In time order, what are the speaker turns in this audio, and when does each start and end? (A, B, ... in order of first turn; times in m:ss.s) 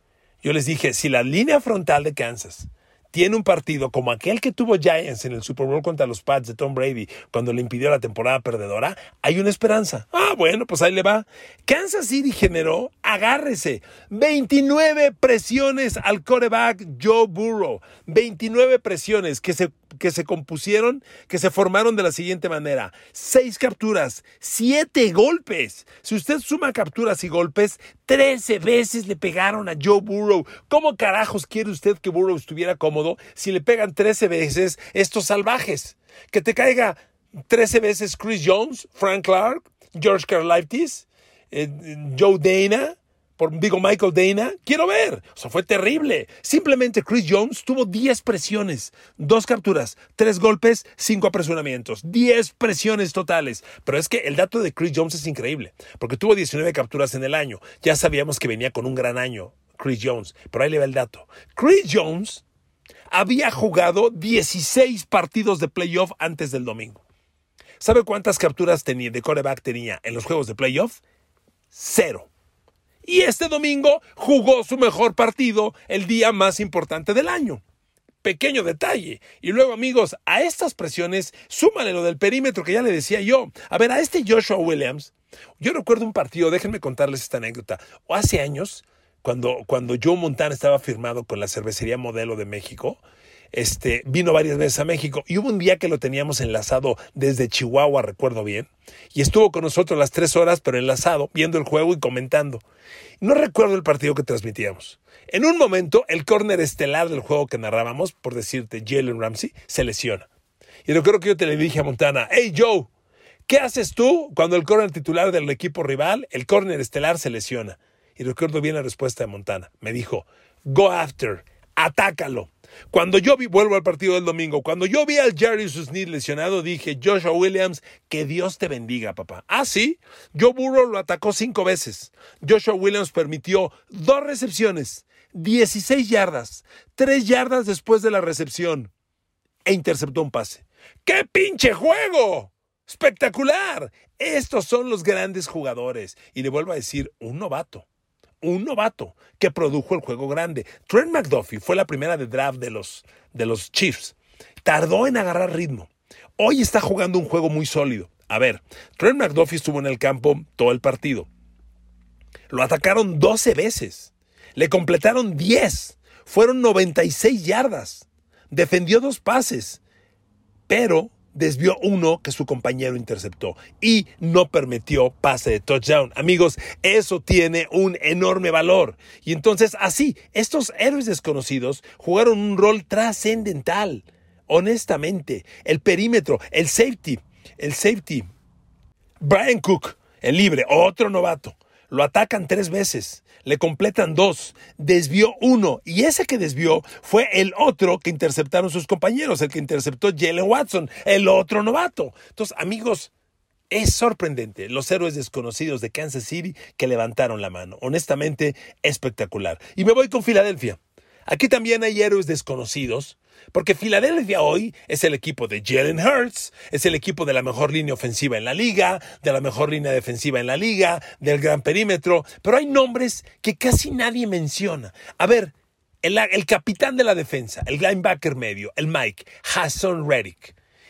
0:00.4-1:02.4 A
1:03.1-1:07.0 A
1:07.8-1:11.0 A
1:11.7-1:12.3 A
1:13.0-1:17.6 A
1:18.2-1:33.0 A
1:33.5-1:42.6 A
1:43.2-1:50.3 A
1:50.8-1:52.9 A
1:53.5-2:18.9 A
2:19.7-2:27.9 A
2:28.4-2:41.3 A
2:42.5-2:49.8 A
2:50.7-3:08.3 A
3:09.2-3:23.1 A
3:23.7-3:50.6 A